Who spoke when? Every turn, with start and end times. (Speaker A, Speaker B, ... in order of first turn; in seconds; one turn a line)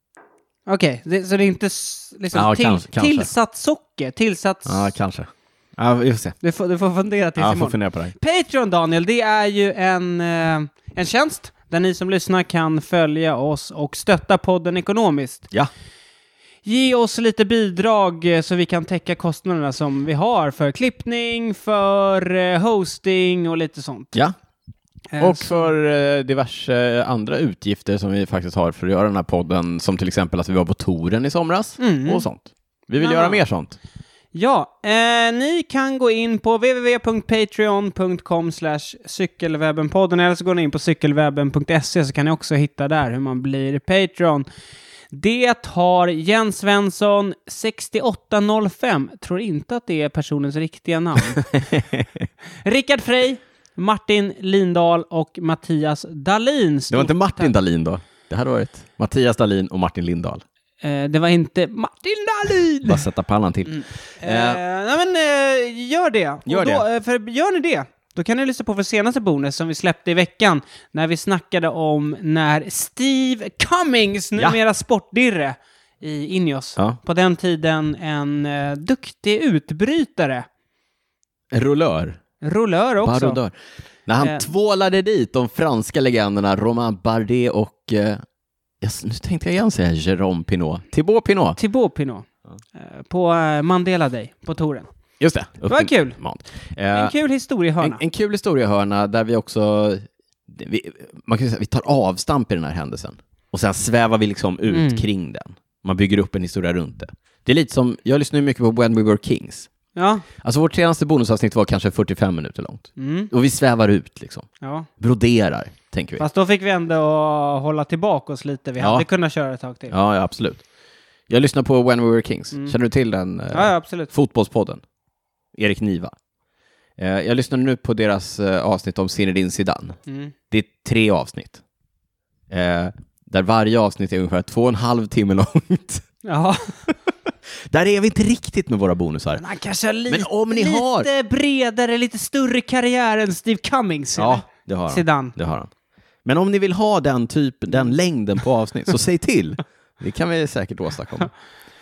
Speaker A: 0.7-4.9
Speaker B: 2.3-3.3
Speaker B: 4.7-6.4
Speaker A: 6.4-15.5
Speaker B: 7.4-8.1
Speaker A: 16.6-24.1
Speaker A: 25.1-25.7
Speaker B: 25.2-33.8
Speaker A: 31.8-32.3
Speaker A: 33.0-33.4
Speaker A: 34.3-44.5
Speaker A: 45.1-51.5
Speaker B: 51.3-52.3
Speaker A: 52.6-57.5
Speaker B: 56.9-60.4
Speaker A: 60.8-63.0
Speaker B: 62.9-64.6
Speaker A: 63.7-80.5
Speaker B: 66.5-66.8
Speaker B: 81.5-82.2
Speaker A: 82.4-83.4
Speaker B: 83.0-83.5
Speaker B: 84.1-88.2
Speaker A: 84.2-84.5
Speaker B: 88.8-91.6
Speaker A: 91.6-94.9
Speaker B: 95.2-97.1
Speaker A: 95.7-96.2
Speaker A: 96.9-98.0
Speaker B: 97.8-109.7
Speaker A: 104.7-105.0
Speaker A: 110.0-110.3
Speaker B: 110.4-114.5
Speaker A: 113.0-113.3
Speaker A: 114.6-114.9
Speaker B: 115.0-116.2
Speaker A: 116.2-119.9
Speaker B: 118.8-119.1
Speaker B: 119.9-120.6
Speaker B: 121.3-124.8
Speaker A: 123.5-124.1
Speaker B: 125.5-126.1
Speaker B: 127.0-130.0
Speaker A: 130.1-130.3
Speaker B: 130.5-131.6
Speaker B: 132.5-136.1
Speaker A: 136.2-136.8
Speaker B: 137.7-139.4
Speaker A: 139.4-145.3
Speaker B: 140.1-141.1
Speaker B: 144.2-145.7
Speaker B: 146.2-151.3